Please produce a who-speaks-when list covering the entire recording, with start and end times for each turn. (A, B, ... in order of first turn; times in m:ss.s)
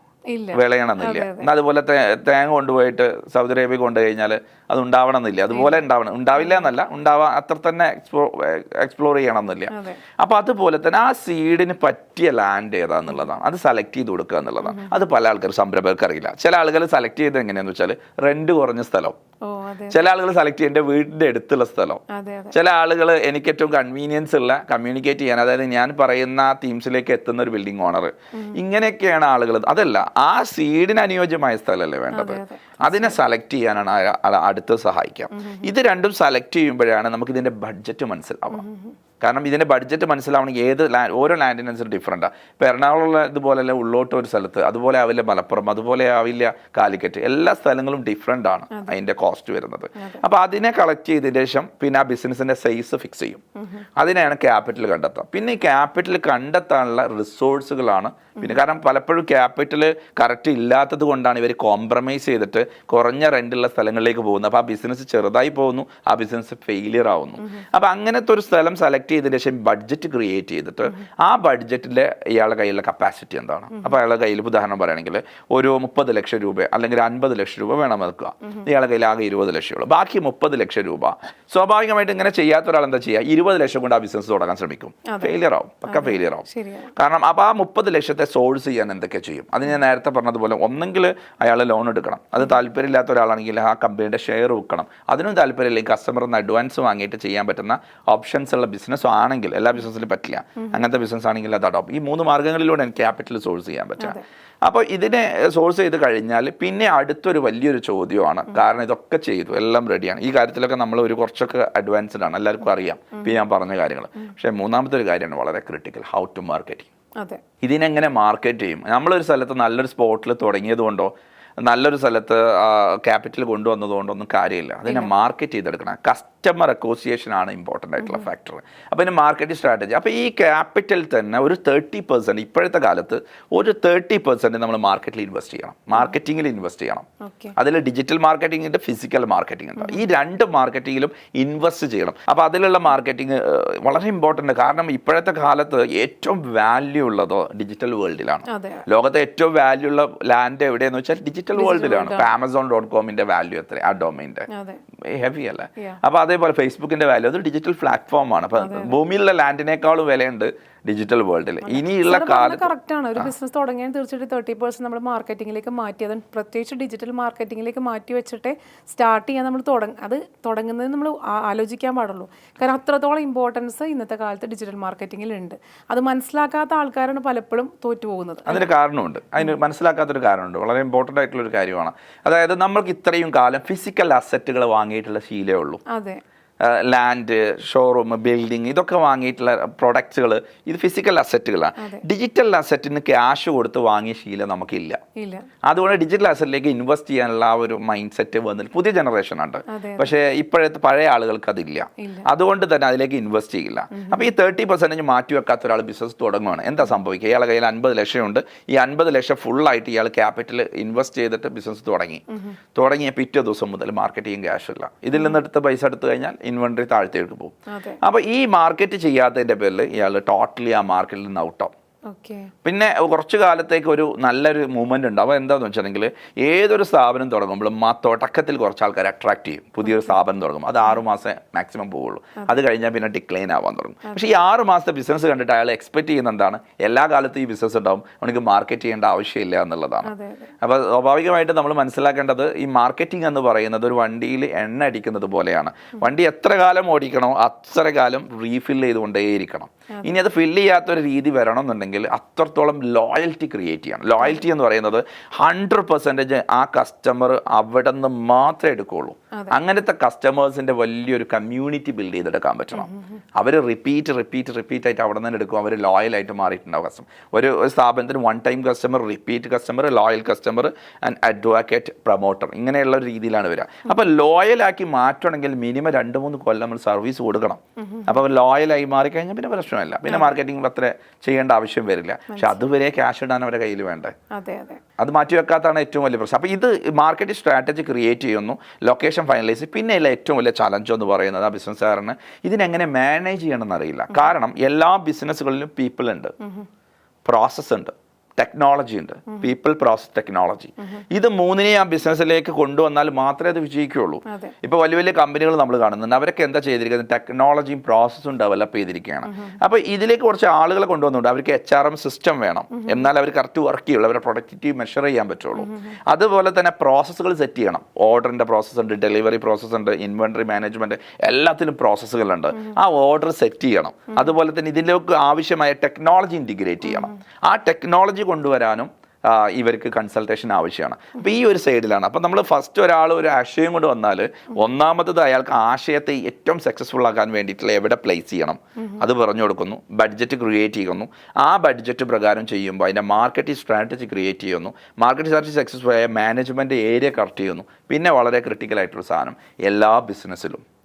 0:00.3-0:01.5 A
0:00.5-0:19.2 B
0:05.5-0:05.8 A
0:06.4-0:06.7 A
0:09.7-0:10.0 A
0:14.6-0:14.9 A
0:19.5-0:20.0 A
0:19.9-0:38.6 B
0:22.1-0:22.6 A
0:28.3-0:28.6 A
0:32.1-0:33.2 A
0:35.3-0:35.7 A
0:38.5-0:39.0 A
0:39.2-0:53.4 B
0:48.7-0:49.0 A
0:54.0-1:56.9 B
1:25.1-1:25.3 A
1:25.9-1:26.9 A
1:57.6-2:01.1 B
2:01.6-2:34.5 B
2:04.9-2:05.1 A
2:08.0-2:08.3 A
2:17.2-2:17.6 A
2:19.8-2:20.0 A
2:28.5-2:28.8 A
2:31.6-2:32.3 A
2:34.5-2:34.8 A
2:35.0-2:43.3 B
2:38.6-2:38.9 A
2:41.6-2:58.7 A
2:58.5-3:05.8 B
3:05.9-3:06.2 A
3:06.6-3:15.0 B
3:11.8-3:12.0 A
3:15.2-3:15.5 A
3:15.7-3:32.2 B
3:19.7-3:20.1 A
3:22.0-3:22.3 A
3:23.9-3:24.3 A
3:32.8-3:41.7 B
3:35.1-3:35.4 A
3:37.7-3:38.0 A
3:42.1-3:42.5 A
3:42.6-4:44.1 B
3:49.9-3:50.1 A
4:00.1-4:00.5 A
4:37.8-4:38.2 A
4:40.1-4:40.4 A
4:42.3-4:42.6 A
4:44.3-4:44.8 A
4:45.0-4:56.3 B
4:56.4-4:56.7 A
4:57.2-5:50.6 B
5:04.3-5:04.5 A
5:09.3-5:09.6 A
5:12.8-5:13.0 A
5:15.6-5:15.9 A
5:26.8-5:27.2 A